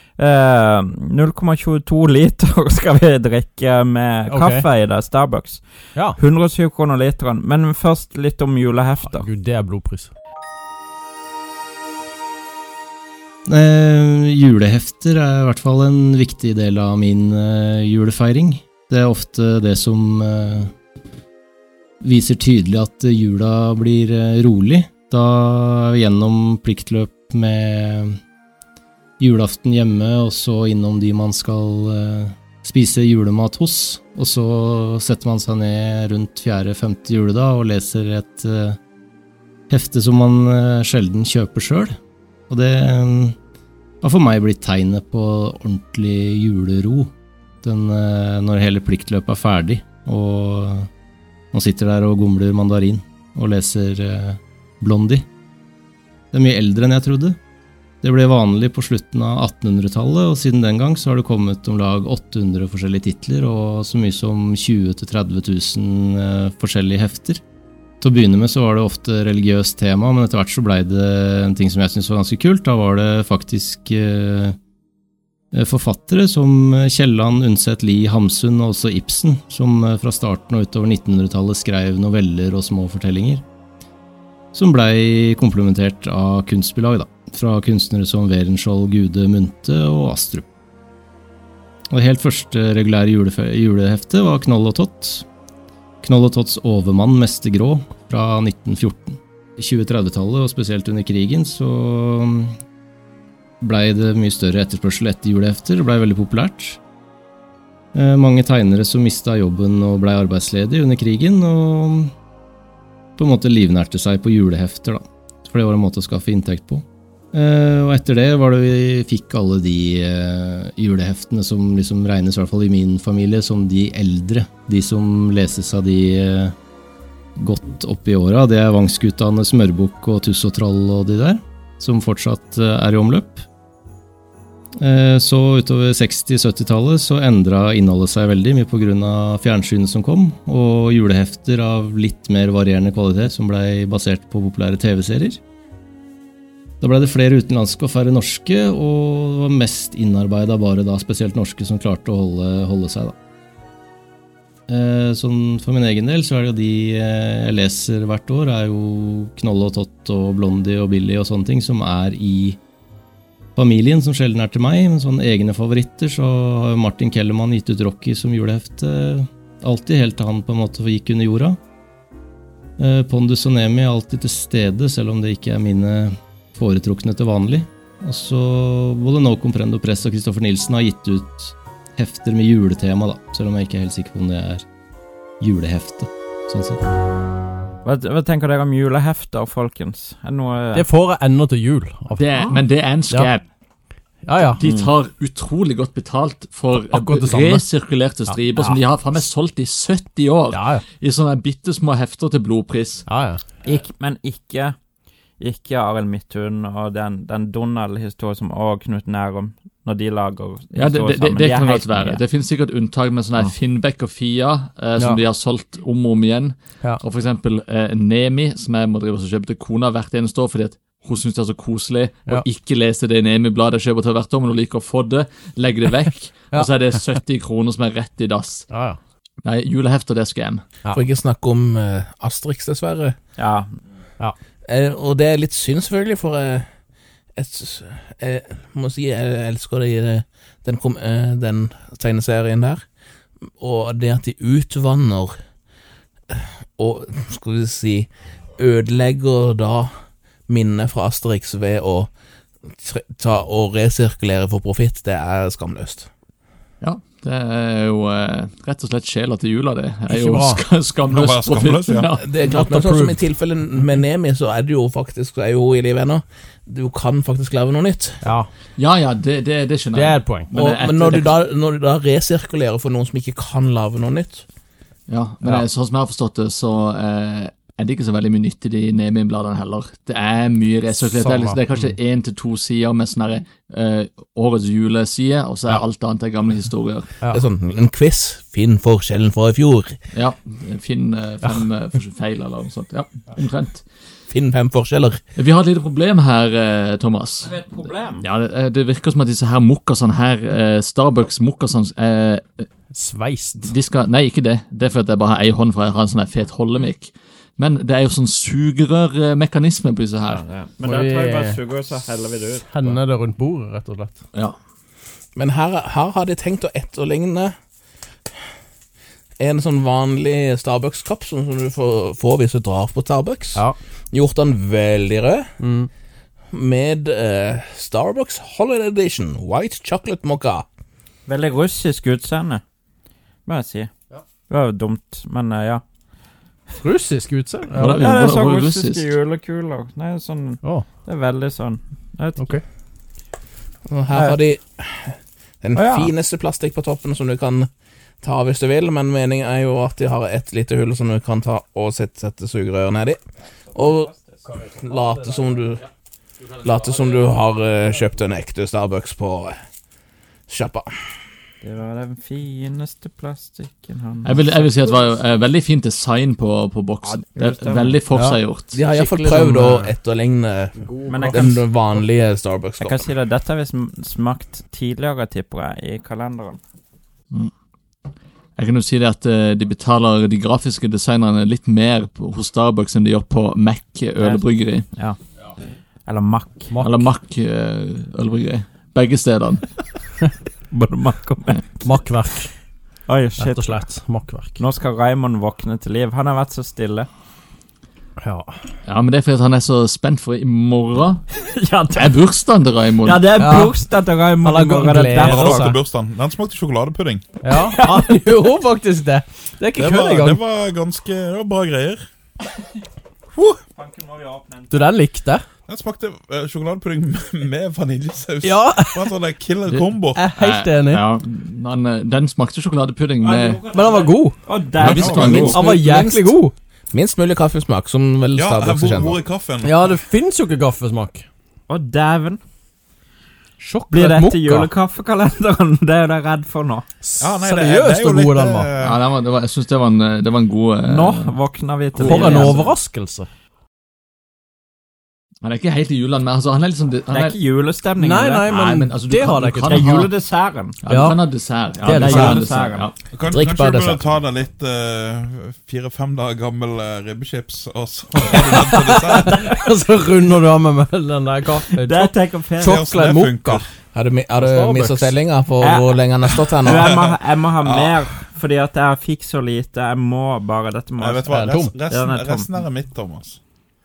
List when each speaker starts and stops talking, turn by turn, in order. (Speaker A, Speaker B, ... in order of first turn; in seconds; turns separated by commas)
Speaker A: 0.2-9.3, Speaker B: 4.3-4.7, Speaker B: 9.0-10.1, Speaker C: 13.4-20.7, Speaker C: 22.0-28.2, Speaker C: 29.2-38.8, Speaker C: 39.7-42.0, Speaker C: 42.5-43.4, Speaker C: 44.0-50.9, Speaker C: 51.5-55.2, Speaker C: 56.3-57.4, Speaker C: 58.0-67.4, Speaker C: 68.0-74.6, Speaker C: 75.5-83.4, Speaker C: 84.5-90.5, Speaker C: 91.9-95.2, Speaker C: 96.0-102.6, Speaker C: 103.6-106.8, Speaker C: 107.9-112.1, Speaker C: 113.2-126.5, Speaker C: 127.4-133.4, Speaker C: 134.8-145.4, Speaker C: 146.8-153.1, Speaker C: 154.7-162.6, Speaker C: 163.6-171.6, Speaker C: 172.8-184.6, Speaker C: 185.4-186.8, Speaker A: 187.8-190.9, Speaker B: 190.8-192.4, Speaker D: 192.2-193.4, Speaker B: 193.0-193.3, Speaker B: 194.2-194.6, Speaker D: 194.5-203.1, Speaker B: 196.7-198.6, Speaker B: 200.5-200.8, Speaker B: 203.1-203.4, Speaker A: 203.6-204.8, Speaker A: 205.4-212.2, Speaker D: 210.7-228.7, Speaker B: 214.9-215.2, Speaker B: 228.7-229.0, Speaker D: 229.4-230.6, Speaker E: 230.9-233.2, Speaker A: 233.4-233.8, Speaker E: 234.6-236.8, Speaker E: 237.3-242.8, Speaker E: 243.4-245.4, Speaker E: 246.3-256.1, Speaker D: 256.8-262.3, Speaker B: 260.1-260.6, Speaker F: 261.1-262.1, Speaker E: 262.1-268.3, Speaker B: 262.4-263.2, Speaker B: 268.2-268.5, Speaker D: 268.8-271.3, Speaker B: 269.9-270.5, Speaker E: 270.5-274.4, Speaker D: 275.1-287.1, Speaker B: 281.1-281.6, Speaker E: 287.3-290.0, Speaker D: 290.1-294.0, Speaker E: 294.3-295.2, Speaker D: 295.4-297.5, Speaker A: 297.4-298.2, Speaker D: 298.2-302.7, Speaker B: 302.9-303.7, Speaker D: 303.6-310.4, Speaker A: 310.2-313.0, Speaker B: 310.8-311.6, Speaker B: 312.6-314.2, Speaker E: 315.4-317.6, Speaker E: 319.4-325.5, Speaker B: 325.6-325.9, Speaker E: 326.5-330.7, Speaker A: 331.2-332.6, Speaker A: 333.4-333.9, Speaker A: 334.5-335.8, Speaker B: 336.8-338.1, Speaker D: 337.8-339.1, Speaker A: 338.0-342.6, Speaker B: 342.4-342.6, Speaker E: 343.9-355.9, Speaker A: 344.1-344.4, Speaker A: 345.7-346.1, Speaker A: 353.7-354.4, Speaker E: 356.4-359.6, Speaker E: 360.5-361.2, Speaker A: 361.6-364.8, Speaker D: 364.2-369.5, Speaker A: 367.1-368.0, Speaker B: 368.1-368.4, Speaker E: 368.7-373.1, Speaker B: 369.3-369.9, Speaker B: 370.8-371.6, Speaker A: 371.1-371.6, Speaker A: 372.8-376.6, Speaker D: 378.6-384.9, Speaker A: 384.2-385.2, Speaker A: 386.1-386.8, Speaker B: 386.7-387.1, Speaker D: 386.8-389.7, Speaker A: 390.7-392.0, Speaker B: 391.8-392.6, Speaker A: 393.1-394.0, Speaker B: 393.4-394.6, Speaker A: 394.6-397.1, Speaker B: 398.2-398.5, Speaker D: 398.9-401.2, Speaker A: 401.3-402.2, Speaker D: 402.0-403.2, Speaker A: 403.0-405.7, Speaker B: 403.3-403.8, Speaker B: 404.4-405.8, Speaker F: 405.2-407.2, Speaker B: 407.4-410.4, Speaker A: 407.5-408.3, Speaker F: 409.8-412.1, Speaker A: 413.7-414.9, Speaker B: 414.7-415.4, Speaker F: 415.7-420.2, Speaker B: 418.4-419.1, Speaker D: 419.7-423.6, Speaker B: 420.1-421.0, Speaker F: 423.2-423.6, Speaker A: 423.5-425.6, Speaker B: 423.6-424.6, Speaker F: 424.7-425.7, Speaker D: 424.8-425.5, Speaker E: 425.0-426.4, Speaker B: 425.4-426.5, Speaker E: 426.9-429.2, Speaker F: 428.4-429.9, Speaker B: 429.6-431.2, Speaker A: 431.7-432.4, Speaker B: 433.6-434.7, Speaker A: 433.9-436.9, Speaker B: 437.0-438.7, Speaker F: 437.2-439.0, Speaker D: 438.8-441.4, Speaker A: 440.9-442.8, Speaker B: 442.0-443.3, Speaker D: 442.0-442.6, Speaker D: 445.4-447.4, Speaker A: 447.1-448.5, Speaker B: 448.0-450.1, Speaker D: 448.5-450.1, Speaker A: 449.7-450.8, Speaker D: 450.8-453.0, Speaker B: 450.8-451.2, Speaker B: 451.8-452.5, Speaker A: 451.9-452.9, Speaker E: 452.1-452.4, Speaker F: 453.1-459.5, Speaker E: 453.3-454.1, Speaker B: 458.2-463.7, Speaker A: 461.7-462.8, Speaker F: 462.6-463.8, Speaker E: 463.9-466.9, Speaker B: 464.4-465.1, Speaker A: 465.6-472.6, Speaker F: 466.7-468.2, Speaker F: 471.0-473.4, Speaker B: 471.3-471.7